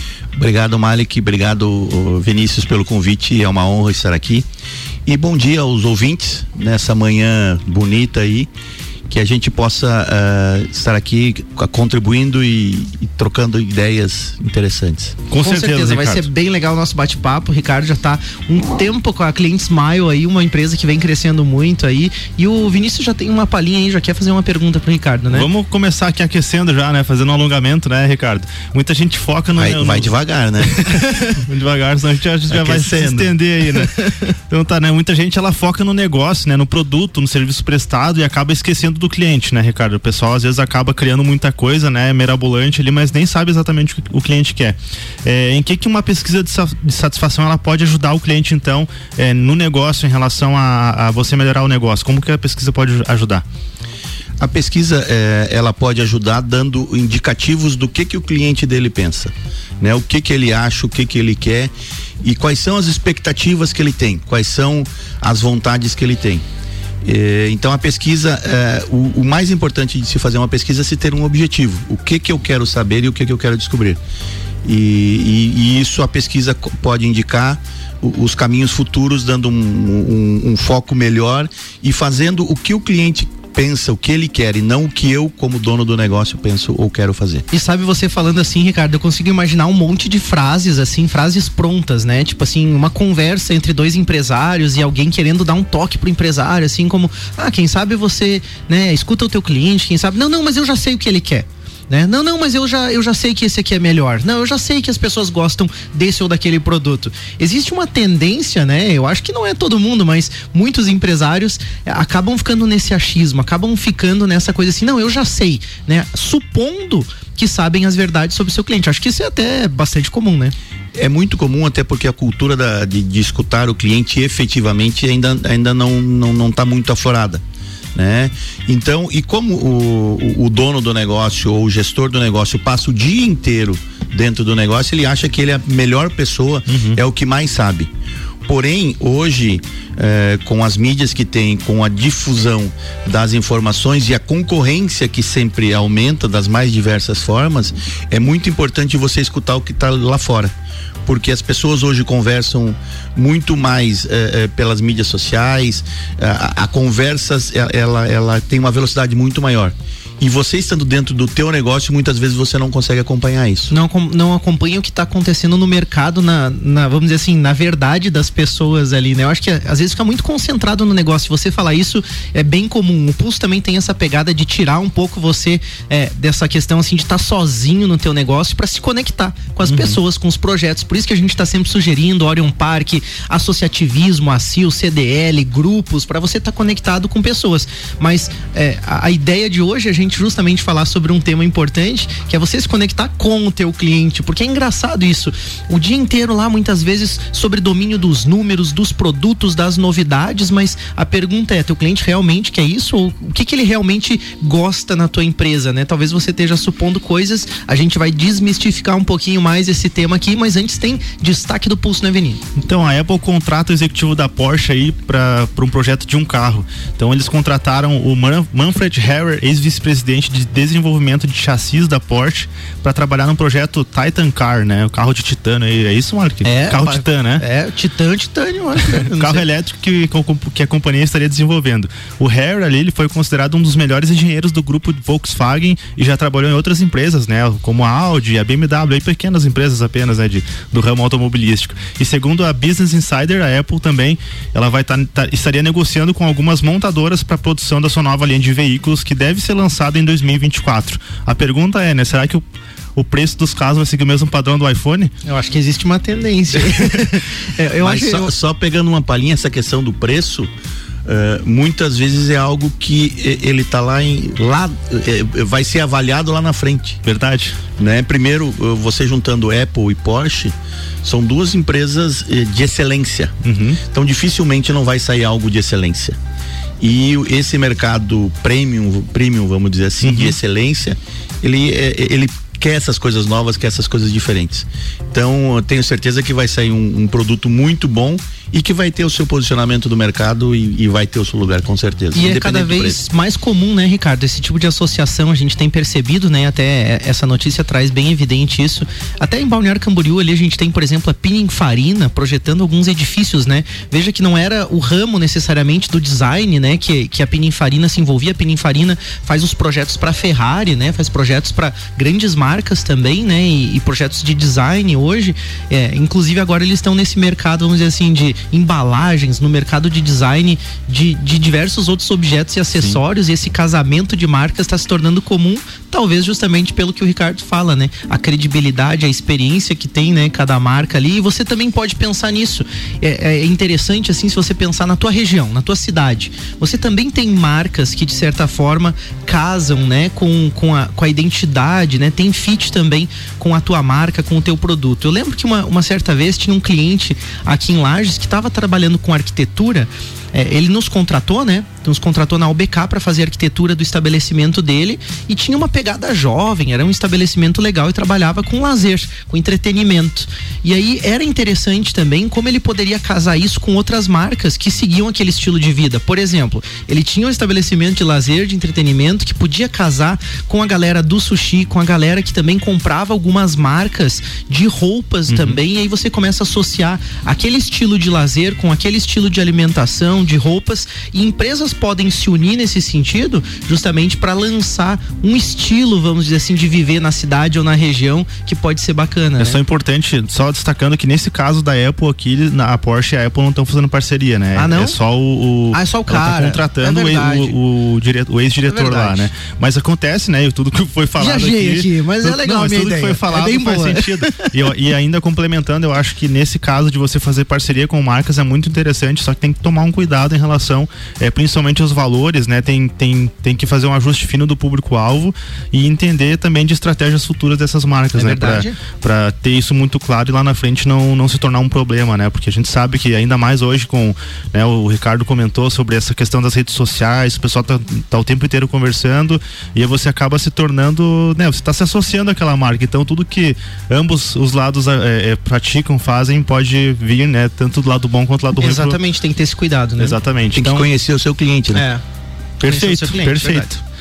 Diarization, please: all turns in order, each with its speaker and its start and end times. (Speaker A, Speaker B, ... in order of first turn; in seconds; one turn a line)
Speaker A: 0.4-4.5
Speaker A: 5.0-8.5
Speaker A: 9.1-15.2
Speaker B: 15.3-16.3
Speaker C: 15.4-25.5
Speaker B: 25.3-30.1
Speaker A: 29.5-31.0
Speaker B: 30.8-34.0
Speaker A: 32.5-33.3
Speaker B: 34.5-53.4
Speaker A: 54.4-66.4
Speaker A: 67.0-74.0
Speaker A: 74.6-87.4
Speaker C: 87.5-120.5
Speaker A: 121.0-127.4
Speaker A: 128.0-137.9
Speaker B: 136.7-137.0
Speaker A: 138.4-150.5
Speaker A: 151.1-163.7
Speaker C: 163.7-212.4
Speaker B: 179.7-180.0
Speaker B: 212.6-227.4
Speaker C: 226.4-229.4
Speaker B: 228.9-252.4
Speaker B: 252.9-255.1
Speaker C: 255.2-258.3
Speaker A: 257.8-260.5
Speaker A: 261.0-267.0
Speaker B: 267.0-267.6
Speaker A: 267.8-270.5
Speaker A: 271.0-273.3
Speaker B: 273.4-273.8
Speaker A: 273.9-276.2
Speaker A: 276.8-293.0
Speaker B: 280.0-280.4
Speaker C: 292.1-389.6
Speaker B: 375.3-375.6
Speaker B: 389.4-439.0
Speaker C: 394.6-394.9
Speaker C: 395.7-397.5
Speaker C: 398.7-399.3
Speaker C: 401.2-404.5
Speaker C: 418.1-418.8
Speaker C: 438.6-440.1
Speaker B: 440.0-440.9
Speaker A: 440.5-441.9
Speaker C: 441.7-442.0
Speaker B: 442.6-443.7
Speaker C: 442.6-443.8